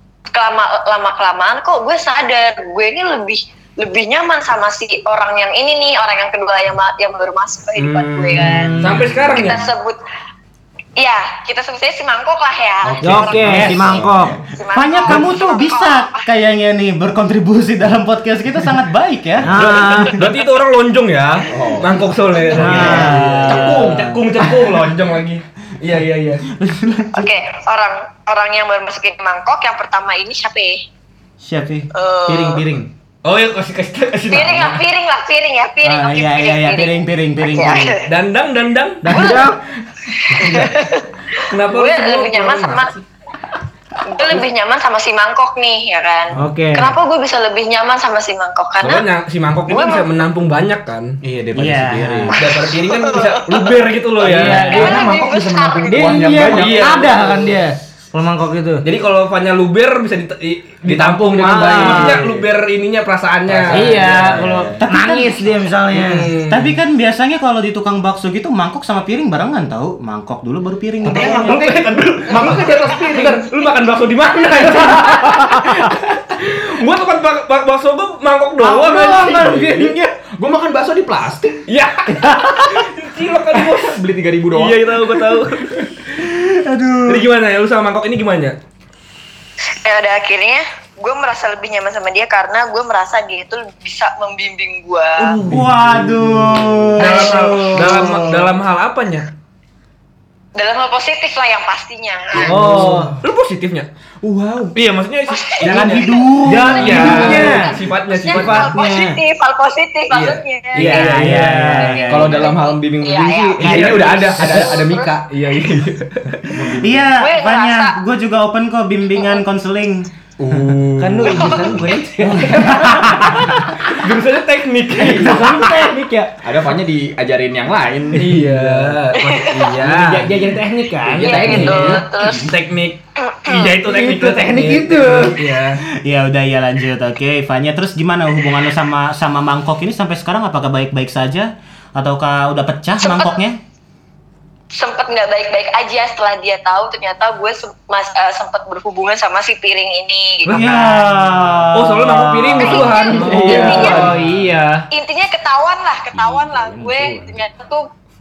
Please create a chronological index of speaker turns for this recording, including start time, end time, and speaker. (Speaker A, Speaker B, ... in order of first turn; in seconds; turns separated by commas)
Speaker A: 0.3-10.0, Speaker B: 7.8-9.5, Speaker C: 8.4-9.1, Speaker D: 8.8-9.7, Speaker A: 11.0-13.9, Speaker B: 12.8-14.4, Speaker C: 13.0-14.4, Speaker E: 13.4-14.1, Speaker A: 14.5-16.2, Speaker E: 14.7-20.1, Speaker C: 19.4-20.2, Speaker D: 19.5-26.4, Speaker B: 21.5-21.9, Speaker C: 22.5-23.8, Speaker B: 22.6-23.5, Speaker E: 22.6-24.8, Speaker E: 26.5-27.3, Speaker A: 27.1-30.8, Speaker E: 31.4-31.9, Speaker A: 31.9-32.6, Speaker B: 32.2-32.9, Speaker D: 33.2-34.8, Speaker A: 34.3-38.0, Speaker E: 35.8-38.0, Speaker D: 38.0-39.3, Speaker C: 39.0-39.6, Speaker A: 39.1-39.5, Speaker A: 40.1-42.9, Speaker D: 41.4-43.0, Speaker A: 44.0-49.0, Speaker C: 46.4-47.0, Speaker D: 48.8-51.1, Speaker A: 49.7-50.1, Speaker B: 51.2-52.4, Speaker E: 51.5-52.4, Speaker D: 52.4-55.1, Speaker A: 52.6-53.8, Speaker C: 54.2-55.0, Speaker B: 54.3-57.5, Speaker A: 54.5-56.7, Speaker C: 55.9-58.8, Speaker D: 56.5-57.6, Speaker D: 58.8-64.4, Speaker B: 60.9-62.5, Speaker C: 60.9-62.2, Speaker B: 63.5-64.8, Speaker C: 63.7-66.4, Speaker E: 64.8-65.5, Speaker D: 65.9-66.8, Speaker E: 66.5-71.7, Speaker B: 71.0-71.7, Speaker D: 71.1-79.9, Speaker C: 71.1-71.4, Speaker B: 72.3-73.4, Speaker C: 72.3-73.4, Speaker C: 75.1-75.7, Speaker B: 78.6-81.6, Speaker D: 81.7-86.2, Speaker B: 83.5-85.2, Speaker E: 86.2-87.2, Speaker D: 87.1-88.5, Speaker A: 89.7-95.4, Speaker D: 95.2-95.7, Speaker E: 95.4-98.0, Speaker B: 95.4-96.9, Speaker D: 97.0-99.3, Speaker C: 97.1-98.2, Speaker A: 97.2-97.6, Speaker A: 100.5-102.7, Speaker C: 102.4-103.2, Speaker D: 102.4-103.9, Speaker B: 104.2-104.8, Speaker D: 104.7-108.7, Speaker A: 105.3-115.1, Speaker E: 105.6-107.6, Speaker C: 106.4-107.8, Speaker E: 108.3-109.0, Speaker C: 108.5-109.0, Speaker D: 110.1-111.2, Speaker E: 110.7-112.4, Speaker B: 110.8-111.4, Speaker C: 110.9-112.0, Speaker B: 112.1-115.3, Speaker D: 113.6-116.8, Speaker B: 116.5-117.0, Speaker E: 116.8-120.8, Speaker A: 117.2-118.0, Speaker B: 120.4-123.4, Speaker C: 121.0-123.5, Speaker A: 121.3-121.7, Speaker E: 122.2-123.4, Speaker D: 123.5-125.6, Speaker B: 125.0-125.6, Speaker C: 125.0-126.3, Speaker B: 126.4-129.0, Speaker D: 128.2-135.8, Speaker A: 129.2-129.7, Speaker C: 129.8-132.0, Speaker A: 131.2-132.5, Speaker A: 133.2-133.7, Speaker C: 133.7-135.4, Speaker E: 136.0-143.6, Speaker A: 143.0-143.4, Speaker A: 144.7-150.6, Speaker D: 150.4-150.8, Speaker E: 150.5-153.0, Speaker D: 151.7-154.0, Speaker A: 152.6-154.1, Speaker B: 153.1-154.4, Speaker C: 153.2-154.9, Speaker A: 154.9-157.8, Speaker E: 156.1-157.4